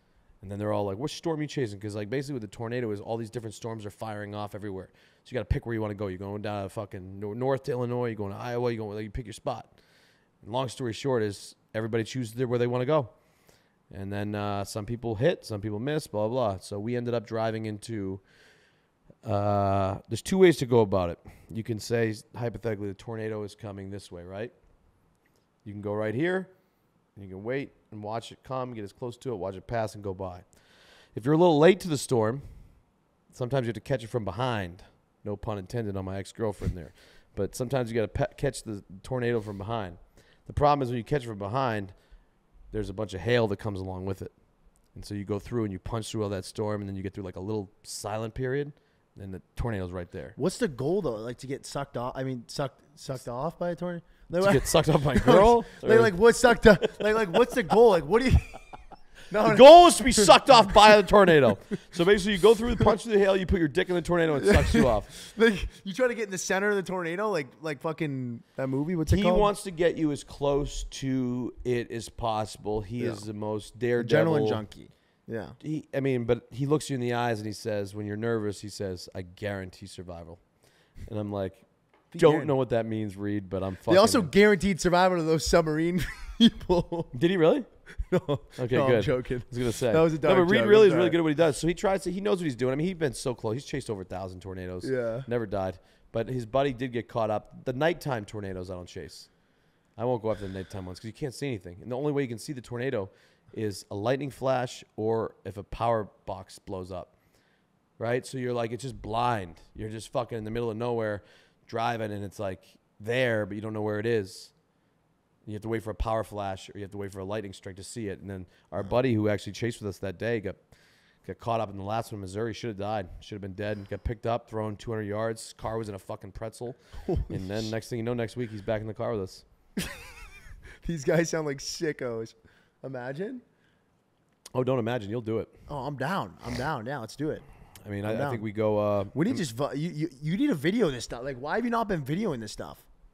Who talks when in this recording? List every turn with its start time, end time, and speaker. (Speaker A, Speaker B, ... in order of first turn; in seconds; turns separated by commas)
Speaker A: 0.4-9.7, Speaker A: 10.4-13.1, Speaker A: 13.9-18.2, Speaker A: 19.2-24.5, Speaker A: 25.6-26.5, Speaker A: 27.1-30.5, Speaker A: 31.1-32.6, Speaker A: 33.3-41.9, Speaker A: 42.7-44.3, Speaker A: 44.9-50.3, Speaker B: 50.4-58.6, Speaker A: 54.4-57.8, Speaker B: 59.3-61.0, Speaker A: 59.4-65.1, Speaker B: 64.4-69.5, Speaker A: 69.1-74.6, Speaker B: 73.0-73.2, Speaker B: 74.0-75.6, Speaker A: 75.6-80.4, Speaker A: 81.0-81.6, Speaker B: 82.1-82.5, Speaker A: 82.2-84.3, Speaker B: 83.9-87.1, Speaker A: 87.1-87.7, Speaker B: 88.0-91.2, Speaker A: 88.6-99.3, Speaker B: 94.8-95.3, Speaker A: 100.0-107.1, Speaker A: 108.0-114.5, Speaker A: 115.4-120.6, Speaker A: 121.2-129.4, Speaker B: 127.0-127.7, Speaker B: 129.8-130.1, Speaker B: 130.8-133.4, Speaker A: 134.5-135.5, Speaker B: 135.7-137.4, Speaker A: 137.8-139.4, Speaker B: 138.0-138.4, Speaker B: 139.1-142.8